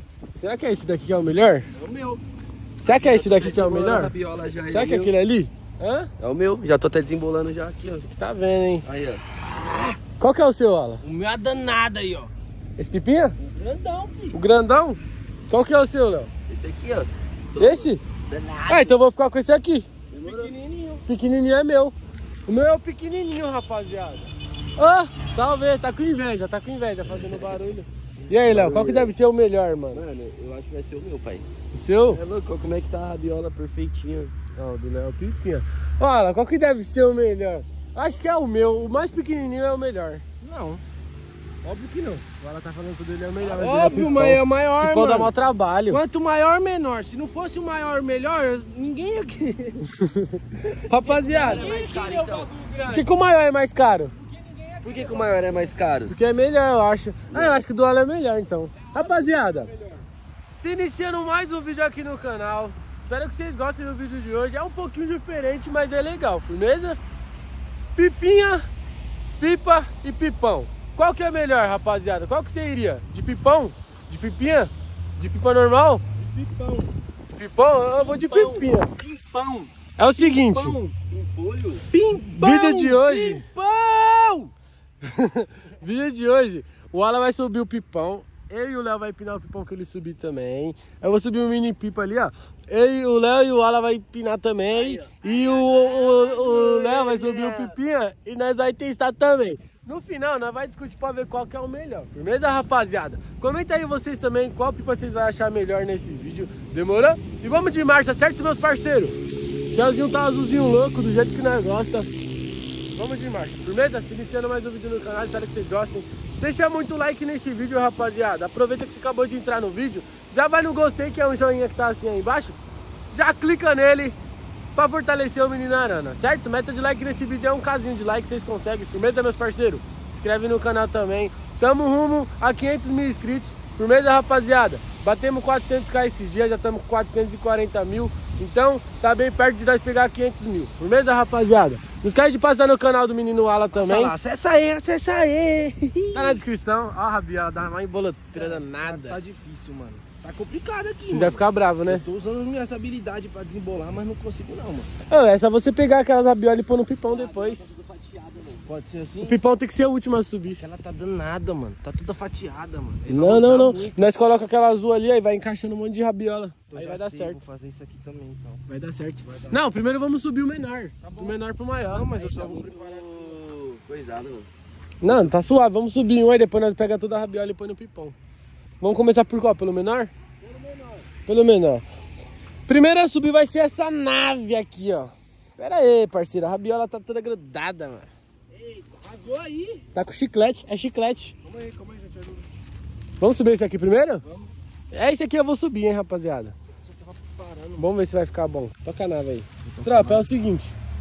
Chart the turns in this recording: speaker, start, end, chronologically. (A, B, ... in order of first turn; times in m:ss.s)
0:00.4-0:01.7 A
0:01.7-0:02.2 B
0:02.8-0:04.1 A
0:02.8-0:05.1 C
0:04.7-0:06.1 A
0:06.2-0:08.1 C
0:08.2-0:08.8 A
0:08.8-0:09.4 C
0:09.7-0:10.0 B
0:10.2-0:11.0 A
0:11.0-0:12.3 B
0:12.8-0:13.4 A
0:13.4-0:14.4 B
0:14.3-0:16.3 A
0:16.5-0:19.0 C
0:17.6-0:18.0 A
0:18.7-0:19.9 A
0:20.1-0:20.5 C
0:20.2-0:21.1 B
0:21.1-0:22.0 A
0:22.5-0:30.0 A
0:27.1-0:27.6 C
0:28.2-0:29.1 C
0:29.9-0:31.5 C
0:31.7-0:32.2 A
0:32.1-0:34.3 C
0:34.6-0:40.2 A
0:40.4-0:40.8 B
0:41.6-0:42.2 B
0:42.4-0:46.0 A
0:43.5-0:45.3 B
0:45.9-0:49.9 B
0:49.9-0:51.7 A
0:51.0-0:52.5 C
0:51.3-0:53.1 B
0:52.9-0:54.2 A
0:54.1-0:55.8 B
0:54.8-0:56.1 C
0:56.1-0:59.7 A
0:57.3-0:57.6 C
0:58.8-1:00.0 B
1:00.6-1:07.0 A
1:08.0-1:08.7 A
1:09.4-1:16.0 A
1:16.2-1:16.9 B
1:17.3-1:18.9 A
1:18.0-1:21.1 B
1:20.0-1:20.8 A
1:21.1-1:21.8 C
1:21.8-1:24.5 B
1:22.4-1:23.4 A
1:25.0-1:49.2 A
1:34.7-1:37.8 C
1:49.7-1:52.1 A
1:52.9-2:02.6 A
2:03.1-2:04.2 A
2:04.8-2:24.1 A
2:23.7-2:26.4 B
2:26.1-2:29.2 A
2:28.3-2:34.9 B
2:31.1-2:32.1 A
2:35.1-2:37.7 A
2:37.0-2:38.7 C
2:38.7-2:39.4 B
2:39.2-2:40.6 A
2:40.6-2:44.1 B
2:43.1-2:47.4 A
2:46.7-2:48.6 B
2:48.7-2:52.4 A
2:49.2-2:49.7 B
2:51.0-2:53.4 B
2:52.3-2:54.5 C
2:55.0-2:58.2 A
2:55.0-2:55.3 B
2:58.8-3:00.1 A
3:00.4-3:01.1 B
3:01.3-3:01.8 A
3:02.7-3:08.1 A
3:08.5-3:09.8 B
3:10.0-3:11.3 A
3:11.4-3:12.5 B
3:13.2-3:14.2 A
3:14.2-3:14.5 B
3:14.9-3:16.5 A
3:16.7-3:17.9 B
3:17.8-3:20.8 A
3:19.7-3:20.3 B